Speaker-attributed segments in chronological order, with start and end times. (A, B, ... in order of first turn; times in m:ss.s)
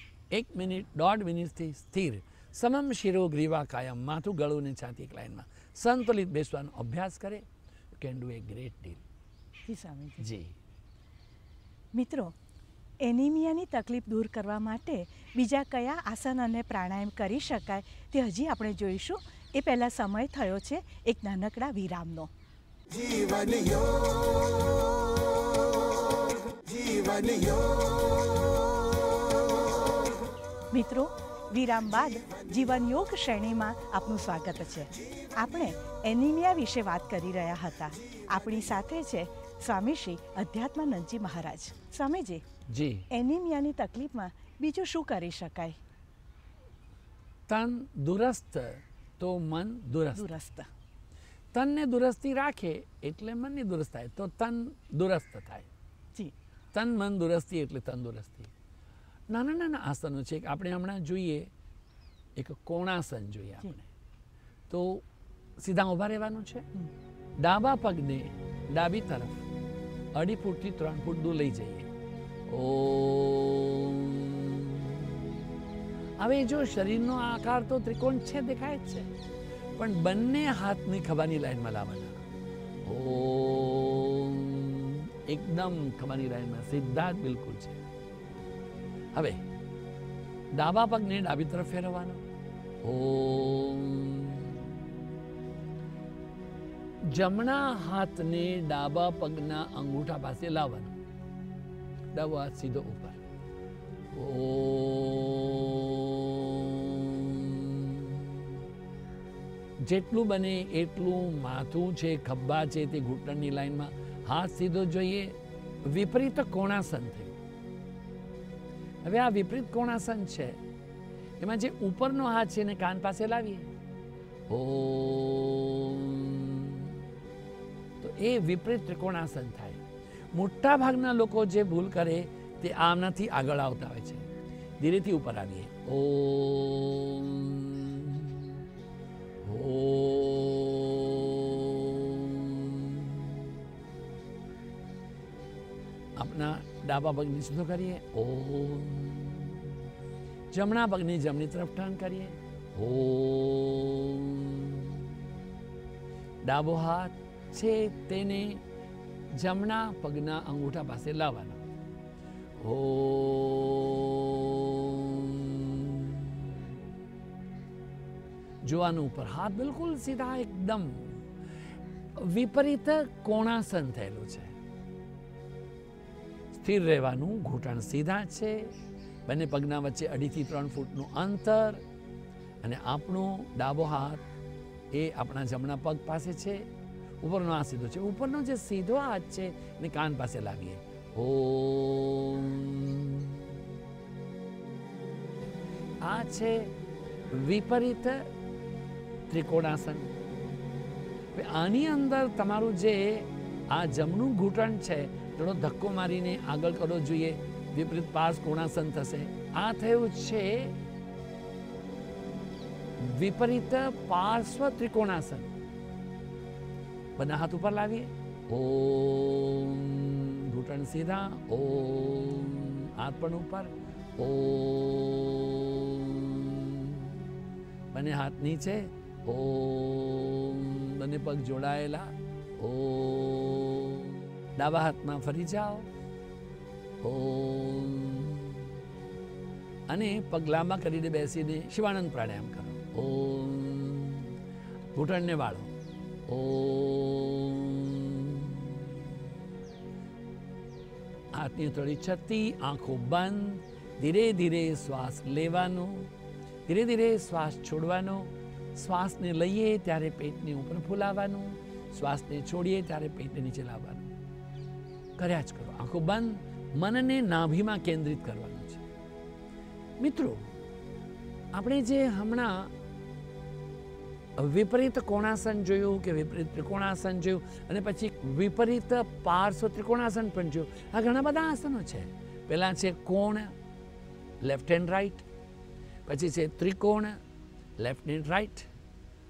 0:00.3-0:07.5 A
0:08.0-0:09.0 A
0:09.7-0:10.2 B
0:10.2-0:10.5 A
0:11.9-0:12.3 B
0:13.0-0:22.3 B
0:22.9-0:29.8 C
0:30.7-0:42.4 B
0:42.7-0:43.1 A
0:43.1-0:45.8 B
0:47.5-0:50.3 A
0:50.2-0:50.7 B
0:51.5-0:55.7 A
0:56.7-0:58.5 A
0:59.3-1:01.5 A
1:02.4-1:03.9 A
1:04.7-1:05.0 A
1:05.6-1:06.7 A
1:07.4-1:09.4 A
1:10.1-1:11.9 A
1:12.5-1:15.5 A
1:16.2-1:19.1 A
1:19.8-1:22.2 A
1:22.8-1:27.8 A
1:29.1-1:29.4 A
1:30.6-1:32.2 A
1:32.8-1:34.8 A
1:37.1-1:41.0 A
1:42.1-1:43.2 A
1:44.1-1:48.6 A
1:49.8-1:57.4 A
1:59.0-2:00.6 A
2:01.4-2:03.7 A
2:04.5-2:07.0 A
2:08.0-2:09.8 A
2:10.3-2:14.3 A
2:14.8-2:18.6 A
2:19.4-2:23.6 A
2:26.2-2:29.8 A
2:30.5-2:35.4 A
2:36.4-2:38.6 A
2:39.3-2:41.6 A
2:42.6-2:46.8 A
2:48.6-2:51.2 A
2:52.2-2:54.6 A
2:56.5-2:58.7 A
2:59.3-3:01.8 A
3:02.6-3:04.2 A
3:04.9-3:06.7 A
3:07.2-3:13.7 A
3:16.0-3:16.7 A
3:17.3-3:18.2 A
3:19.3-3:20.1 A
3:21.3-3:30.7 A
3:33.0-3:35.5 A
3:37.2-3:47.3 A
3:47.9-3:55.9 A
3:57.0-3:58.7 A
3:59.9-4:04.4 A
4:04.9-4:05.7 A
4:06.3-4:09.2 A
4:11.3-4:16.1 A
4:16.7-4:24.1 A
4:25.2-4:28.8 A
4:30.0-4:30.5 A
4:31.5-4:32.7 A
4:34.4-4:43.5 A
4:44.4-4:45.2 A
4:46.1-4:47.2 A
4:47.8-4:48.7 A